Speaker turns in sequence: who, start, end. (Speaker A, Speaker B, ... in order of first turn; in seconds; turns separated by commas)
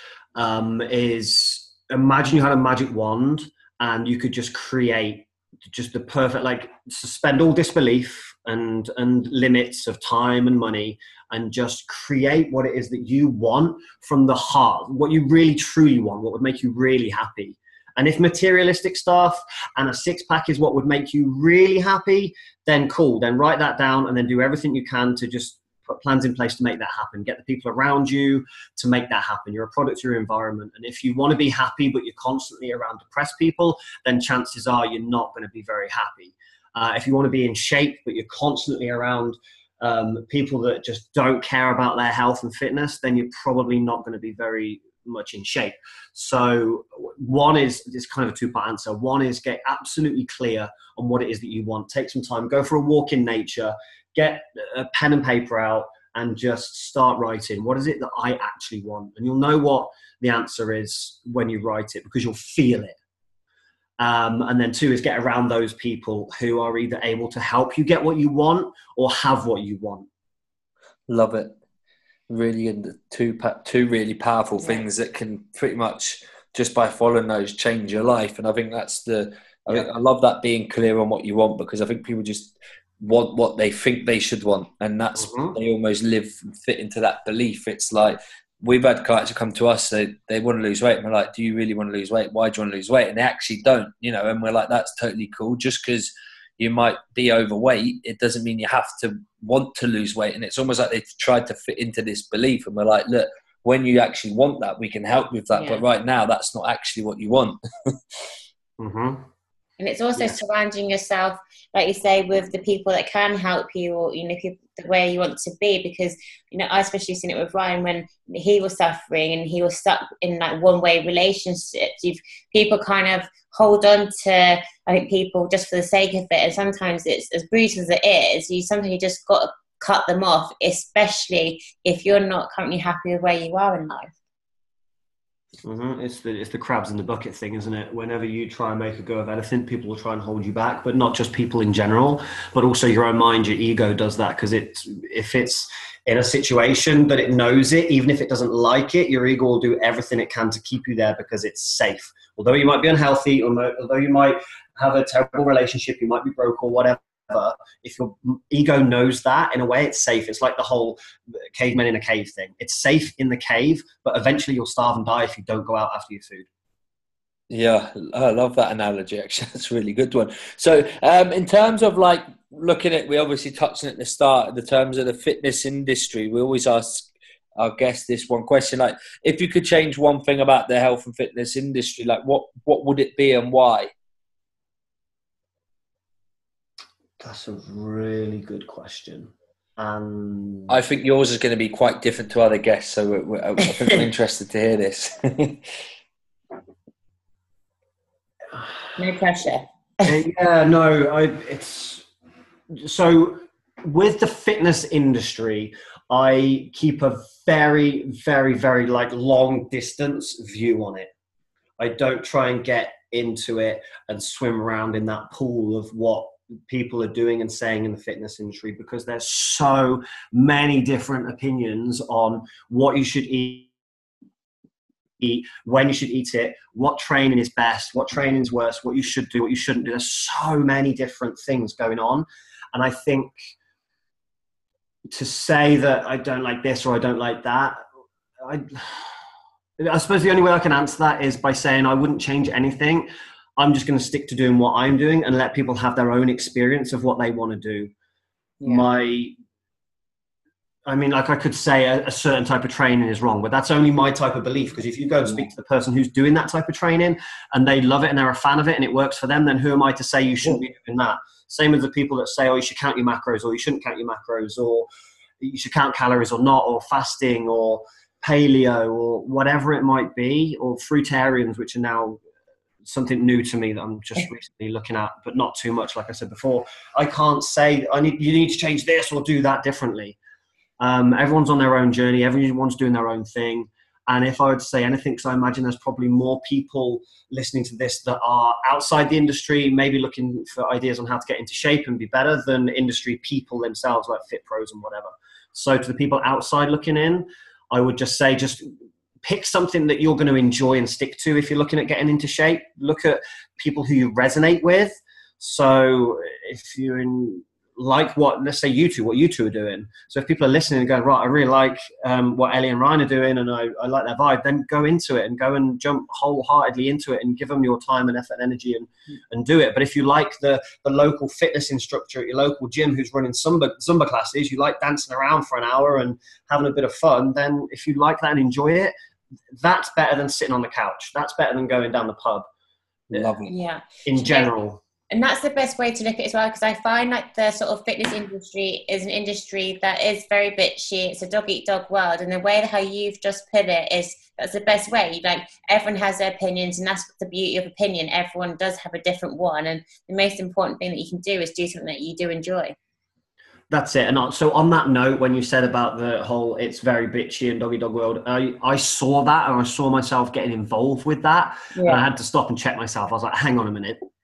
Speaker A: 0.4-63.0, Speaker A: 64.0-70.1, Speaker B: 71.1-71.5, Speaker B: 72.3-108.0, Speaker A: 85.2-85.6, Speaker C: 105.5-105.8, Speaker A: 108.8-109.3, Speaker C: 109.8-134.1, Speaker A: 135.6-166.4, Speaker B: 167.5-183.9, Speaker A: 187.2-190.8, Speaker B: 190.7-195.6, Speaker C: 199.0-200.1, Speaker A: 200.1-202.1, Speaker A: 202.7-211.1, Speaker A: 211.8-223.7, Speaker A: 225.2-233.5, Speaker A: 235.1-237.8, Speaker A: 238.4-239.2, Speaker A: 239.8-247.9, Speaker C: 248.6-248.9, Speaker A: 248.6-249.4, Speaker A: 250.9-264.9, Speaker A: 265.4-272.2, Speaker A: 272.8-280.2, Speaker A: 280.8-298.7, Speaker A: 299.2-328.9, Speaker A: 329.6-332.5, Speaker B: 333.1-333.6, Speaker C: 333.5-334.5, Speaker A: 334.1-334.8, Speaker C: 335.1-352.8, Speaker A: 353.7-364.0, Speaker C: 361.7-362.1